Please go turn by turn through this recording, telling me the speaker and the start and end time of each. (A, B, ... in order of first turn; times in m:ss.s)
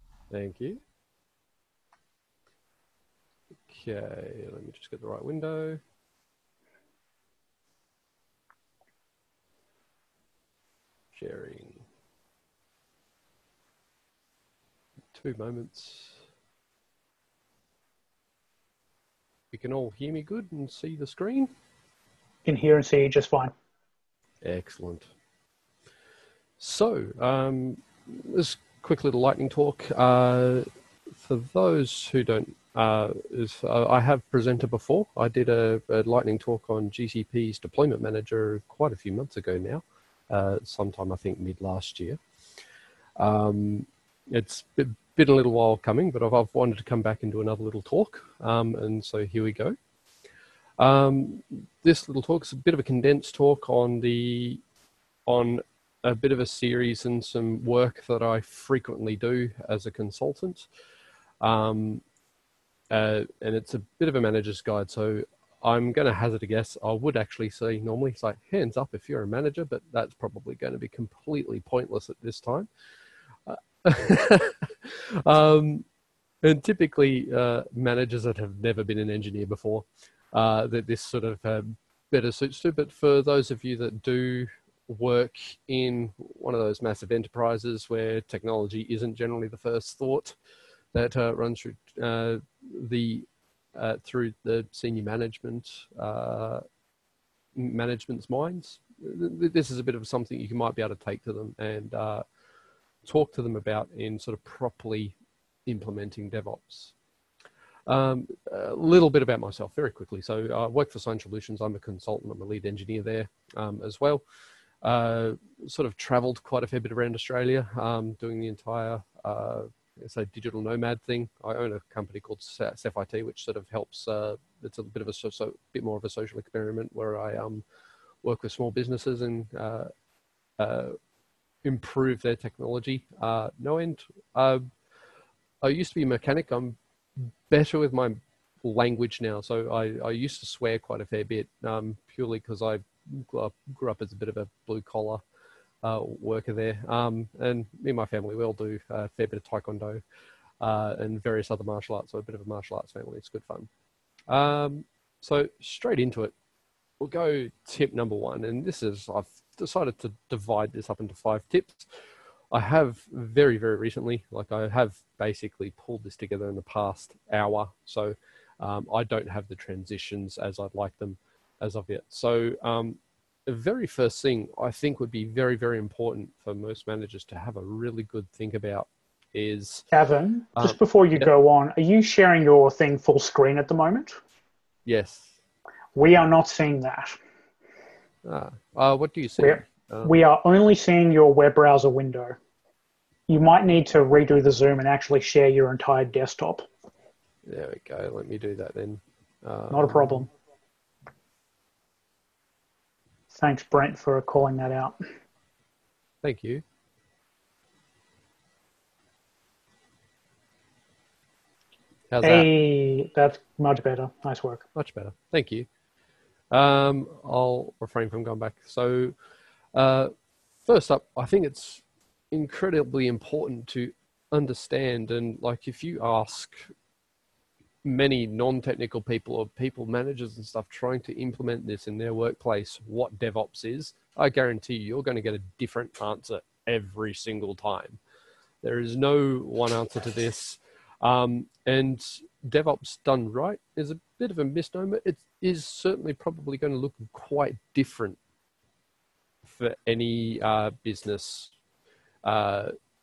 0:00.3-0:00.8 A
0:03.7-0:05.8 A
0:11.1-0:11.8 A
0:15.1-0:16.2 A
0:19.5-0:21.5 A
0:22.4-0:23.5 B
0:24.4-0:25.1 A
0:26.6-0:42.2 A
0:43.2-0:49.8 A
0:50.8-0:54.6 A
0:55.3-1:00.7 A
1:01.4-1:02.0 A
1:02.9-1:12.7 A
1:13.5-1:15.8 A
1:16.4-1:30.4 A
1:30.9-1:36.6 A
1:37.6-1:42.2 A
1:43.0-1:46.9 A
1:47.9-1:54.2 A
1:54.8-2:07.6 A
2:08.2-2:09.9 A
2:10.6-2:11.0 A
2:11.6-2:14.7 A
2:15.6-2:25.2 A
2:25.8-2:30.0 A
2:30.6-2:33.7 A
2:34.3-2:36.3 A
2:37.0-2:41.9 A
2:42.5-2:59.8 A
2:59.9-3:04.2 B
3:00.6-3:01.3 A
3:04.9-3:05.4 A
3:06.0-3:07.2 B
3:08.2-3:10.2 A
3:09.4-3:12.4 B
3:13.3-3:16.7 B
3:17.5-3:20.2 A
3:19.7-3:20.3 B
3:23.3-3:25.0 B
3:26.2-3:26.6 A
3:32.1-3:32.5 A
3:32.2-3:34.6 B
3:34.8-3:35.7 A
3:36.5-3:39.2 A
3:39.7-3:40.1 A
3:40.6-3:46.7 A
3:47.8-3:58.0 A
3:58.6-4:08.2 A
4:09.4-4:11.5 A
4:12.2-4:12.7 A